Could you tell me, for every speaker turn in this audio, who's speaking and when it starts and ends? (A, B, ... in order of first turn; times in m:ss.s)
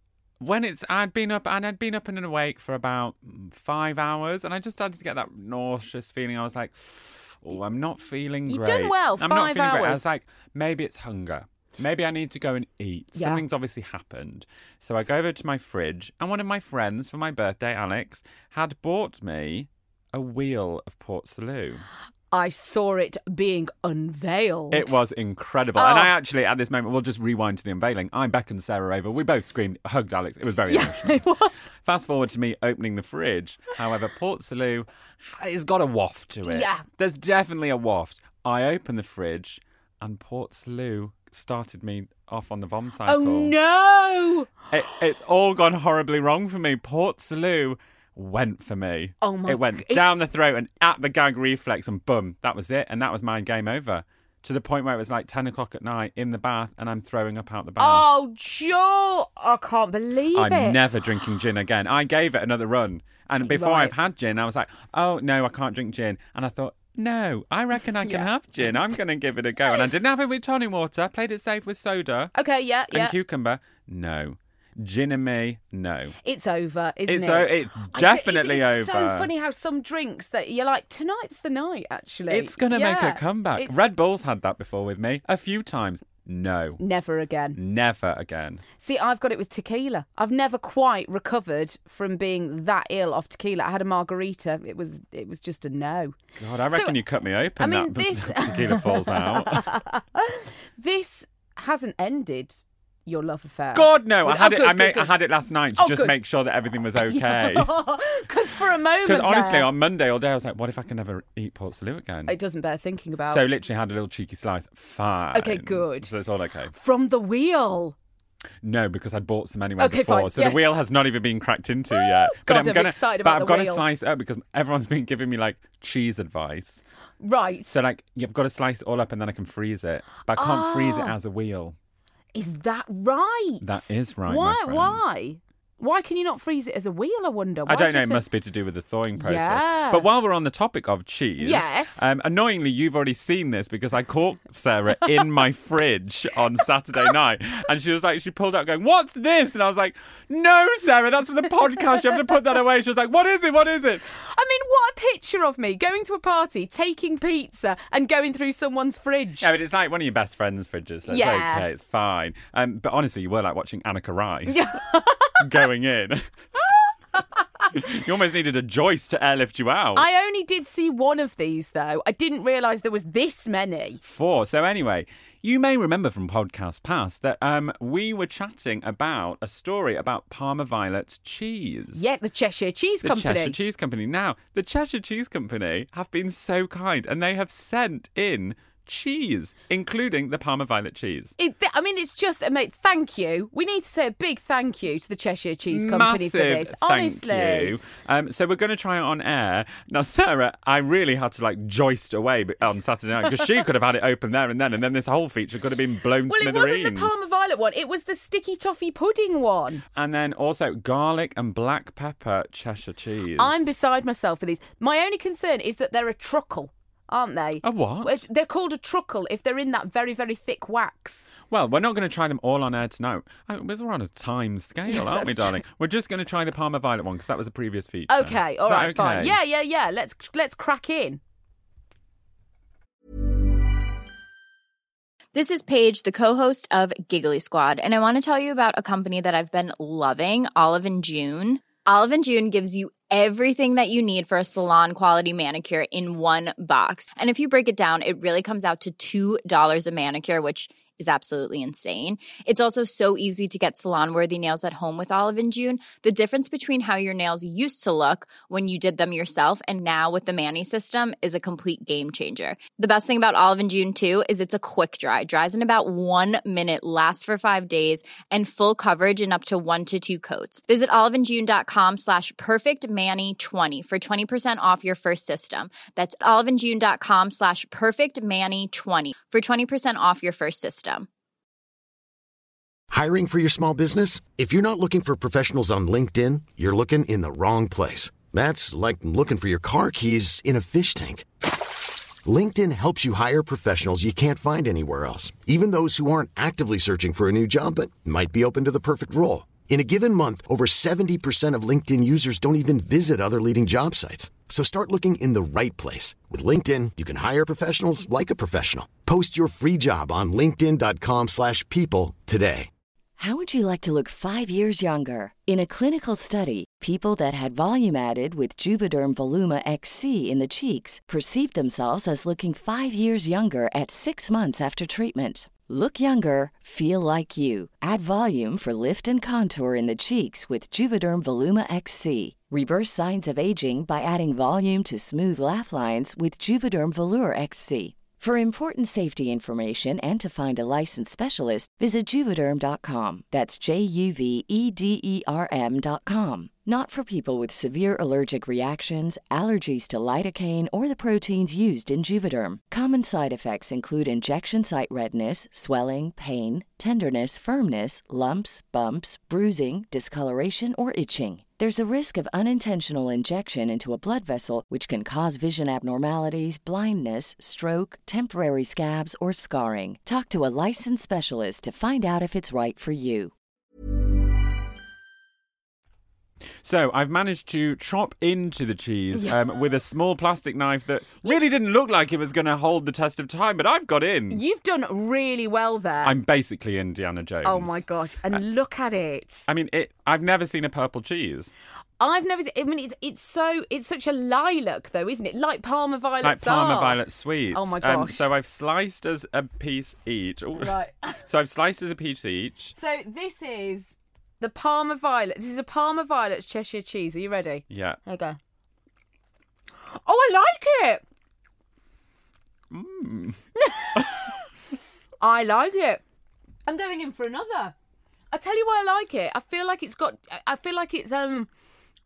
0:00.4-0:21.8 A
0:08.5-0:10.0 B
0:13.1-0:13.4 B
0:22.3-0:25.0 B
0:24.7-0:31.2 A
0:25.7-0:26.1 B
0:30.7-0:31.7 B
0:31.8-0:43.5 A
0:36.4-0:36.8 B
0:43.0-0:44.6 B
0:44.7-0:58.0 A
0:49.2-0:50.0 B
0:57.8-1:00.8 B
1:00.3-1:12.3 A
1:03.4-1:03.9 B
1:08.0-1:08.3 B
1:12.3-1:13.1 B
1:12.9-1:16.1 A
1:16.2-1:23.7 B
1:17.1-1:19.3 A
1:22.3-1:26.8 A
1:26.8-1:27.6 B
1:27.6-1:28.6 A
1:28.8-1:36.2 B
1:36.4-1:39.7 A
1:36.7-1:37.0 B
1:37.6-1:45.1 B
1:43.7-1:47.7 A
1:45.8-1:46.2 B
1:47.0-1:49.7 B
1:49.0-1:52.3 A
1:52.3-1:53.4 B
1:53.3-1:56.7 A
1:55.3-1:56.1 B
1:56.7-1:58.0 B
1:58.6-2:06.8 A
1:59.8-2:00.6 B
2:01.9-2:03.8 B
2:07.2-2:07.8 B
2:07.7-2:11.8 A
2:10.3-2:11.1 B
2:12.3-2:18.2 B
2:13.6-2:15.0 A
2:17.7-2:34.1 A
2:19.2-2:20.1 B
2:21.4-2:22.0 B
2:34.1-2:39.5 B
2:39.4-2:44.7 A
2:41.0-2:41.6 B
2:44.5-2:45.5 B
2:45.4-2:46.3 A
2:47.7-2:50.0 A
2:49.9-2:54.0 B
2:54.0-3:02.0 A
3:01.9-3:03.6 B
3:03.0-3:11.3 A
3:11.4-3:17.8 B
3:15.7-3:27.1 A
3:26.3-3:29.8 B
3:29.9-3:33.6 A
3:33.4-3:41.3 B
3:37.6-3:38.1 A
3:41.5-3:49.3 A
3:44.9-3:45.6 B
3:48.1-3:51.2 B
3:55.3-4:41.1 C
4:42.9-4:51.3 D
4:52.2-5:12.7 D
5:13.2-6:13.3 E
6:16.6-6:24.4 A
6:19.1-6:19.4 B
6:24.3-6:26.2 B
6:26.0-6:27.8 A
6:27.4-6:29.4 B
6:29.5-6:31.5 A
6:32.0-6:37.0 B
6:36.2-6:40.7 A
6:37.5-6:38.3 B
6:40.6-6:41.2 B
6:41.2-6:42.7 A
6:42.7-6:48.4 B
6:47.7-6:48.0 A
6:49.9-6:51.0 B
6:52.7-6:53.4 A
6:53.6-6:54.4 B
6:55.2-6:56.0 B
6:56.6-6:57.7 B
6:58.3-7:01.5 B